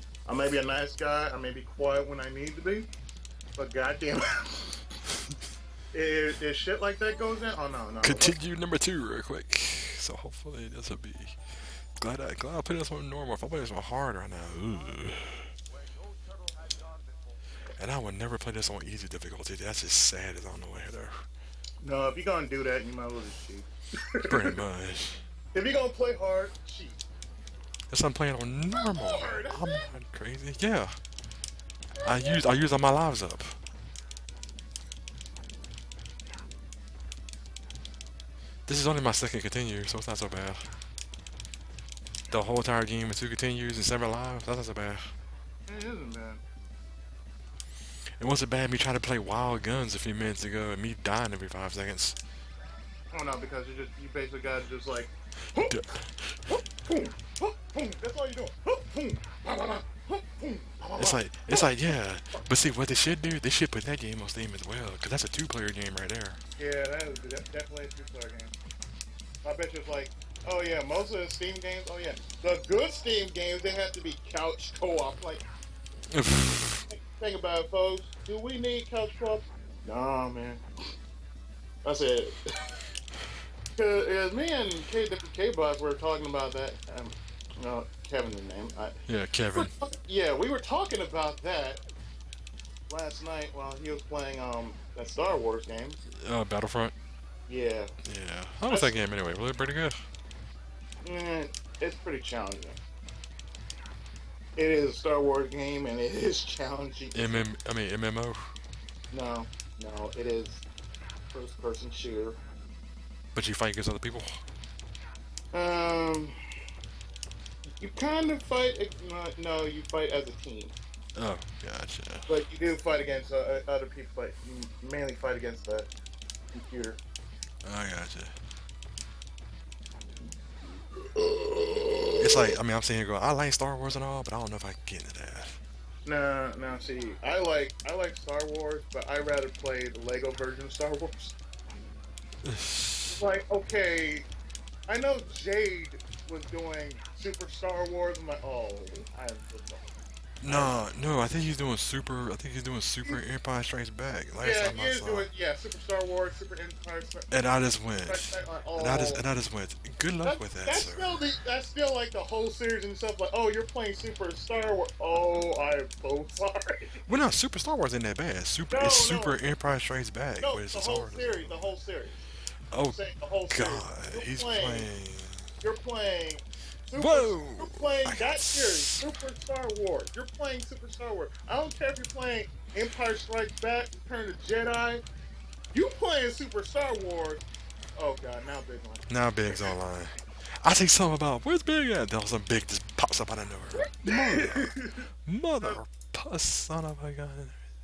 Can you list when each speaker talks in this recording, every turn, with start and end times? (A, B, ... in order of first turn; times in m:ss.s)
0:00.3-0:02.9 A
0:03.6-0:04.8 A
0:05.9-0:08.4 A
0:08.0-0:15.5 B
0:17.8-0:21.2 B
0:21.8-0:24.5 A
0:24.2-0:25.2 B
0:25.5-0:27.0 A
0:27.9-0:31.0 B
0:28.7-0:29.9 A
0:32.0-0:32.4 A
0:32.0-0:33.6 B
0:38.7-0:40.7 B
0:42.3-0:45.1 B
0:45.7-0:46.4 A
0:48.2-0:52.2 B
0:53.1-0:55.8 A
0:55.6-0:56.4 B
0:56.5-1:01.7 A
1:01.0-1:06.4 B
1:06.6-1:08.5 A
1:09.4-1:15.4 A
1:16.1-1:16.9 B
1:16.9-1:20.6 A
1:21.8-1:22.5 A
1:23.8-1:29.0 A
1:29.1-1:29.7 B
1:29.5-1:31.8 A
1:32.9-1:36.0 A
1:36.1-1:36.9 B
1:37.5-1:37.9 A
1:38.0-1:40.1 B
1:41.0-1:42.8 A
1:44.6-1:47.4 A
1:47.1-1:48.5 B
1:49.1-1:50.6 A
1:51.3-1:52.4 A
1:53.3-1:54.4 B
1:55.5-1:56.4 A
1:57.8-2:00.8 A
2:01.2-2:02.3 B
2:02.3-2:05.9 A
2:06.5-2:07.0 A
2:07.6-2:08.4 B
2:11.0-2:12.5 A
2:12.2-2:15.6 B
2:16.1-2:21.4 A
2:22.4-2:23.2 B
2:23.1-2:24.3 A
2:24.9-2:29.9 A
2:30.4-2:35.3 B
2:30.5-2:30.8 A
2:34.4-2:37.3 A
2:37.3-2:41.2 B
2:38.1-2:39.2 A
2:40.2-2:47.0 A
2:47.1-2:51.6 B
2:48.7-2:49.4 A
2:50.4-2:52.3 A
2:52.7-2:55.5 B
2:52.9-2:54.9 A
2:55.6-3:05.0 A
2:57.0-2:59.0 B
3:05.7-3:07.4 A
3:08.0-3:09.7 A
3:09.1-3:17.6 B
3:13.8-3:15.1 A